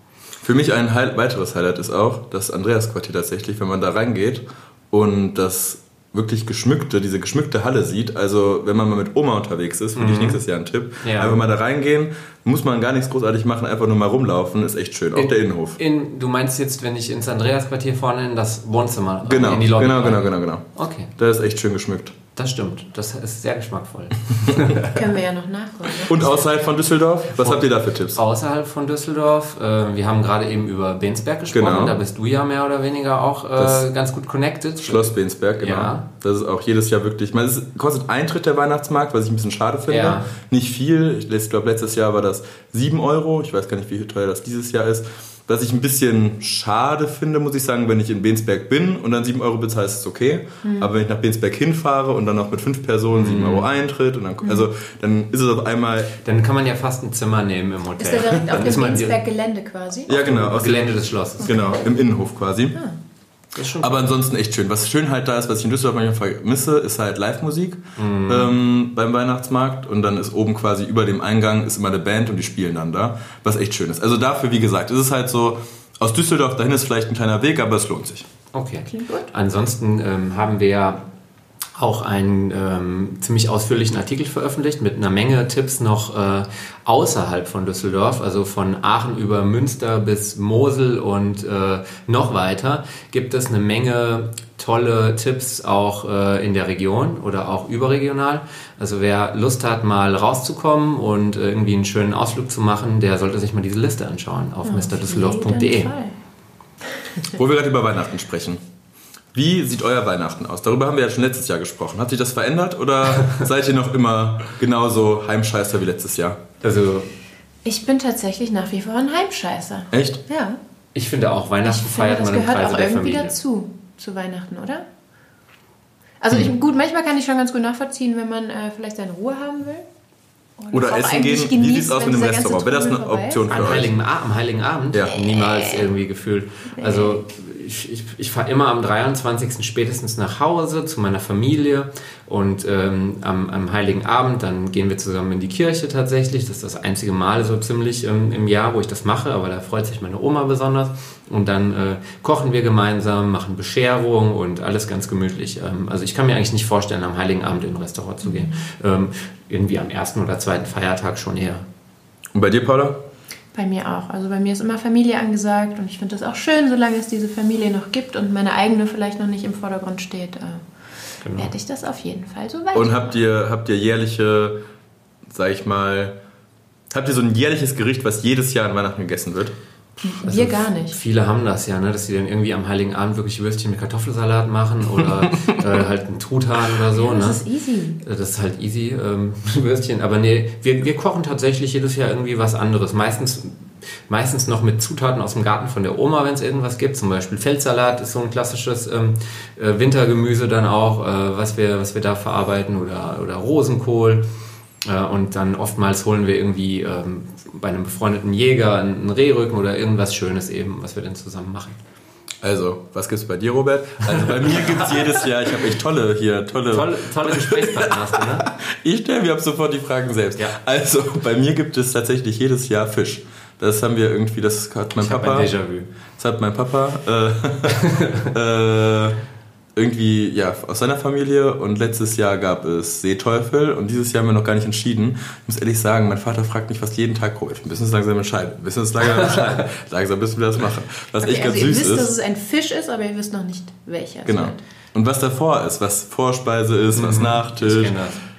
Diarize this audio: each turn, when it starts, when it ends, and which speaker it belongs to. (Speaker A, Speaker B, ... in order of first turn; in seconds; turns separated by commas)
Speaker A: 0.4-15.8, Speaker B: 9.9-10.4, Speaker B: 11.0-11.4, Speaker B: 15.1-21.1, Speaker A: 19.2-20.6, Speaker A: 21.2-22.1, Speaker B: 22.3-24.9, Speaker C: 24.8-26.6, Speaker A: 26.0-28.2, Speaker B: 27.3-36.0, Speaker A: 31.5-32.0, Speaker A: 33.6-33.9, Speaker A: 34.8-56.1, Speaker B: 39.9-40.3, Speaker C: 50.6-50.9, Speaker B: 53.1-53.7, Speaker B: 56.2-59.1, Speaker C: 58.0-60.3, Speaker A: 60.1-62.8, Speaker B: 60.2-61.5, Speaker C: 61.4-61.8, Speaker B: 63.5-64.1, Speaker A: 63.8-78.3, Speaker B: 68.0-68.6, Speaker B: 78.5-81.0, Speaker C: 78.9-79.3, Speaker B: 81.8-105.9, Speaker C: 104.6-106.1, Speaker A: 107.3-108.6, Speaker A: 109.3-116.4, Speaker B: 113.2-113.5, Speaker B: 116.6-117.1, Speaker C: 117.6-120.6, Speaker A: 119.9-120.2, Speaker B: 120.9-123.3, Speaker C: 121.6-124.8, Speaker C: 126.2-129.8, Speaker C: 130.6-133.5, Speaker A: 130.7-133.9, Speaker B: 133.5-161.7, Speaker C: 135.3-135.8, Speaker C: 136.8-137.2, Speaker C: 158.2-158.6, Speaker A: 162.3-163.0, Speaker C: 163.5-170.6, Speaker B: 171.2-171.5, Speaker C: 171.4-173.2, Speaker A: 172.7-174.6, Speaker A: 175.3-176.2, Speaker A: 176.9-179.6, Speaker C: 180.0-181.0, Speaker B: 180.2-187.4, Speaker C: 186.9-188.0, Speaker B: 188.0-204.3, Speaker B: 204.8-211.8, Speaker A: 212.4-225.5, Speaker B: 214.1-215.1, Speaker B: 216.7-218.5, Speaker B: 225.0-225.9, Speaker A: 226.2-229.2, Speaker B: 227.8-228.3, Speaker A: 229.8-242.1, Speaker B: 239.1-239.6, Speaker C: 241.2-244.6, Speaker A: 244.2-248.0, Speaker B: 246.9-248.2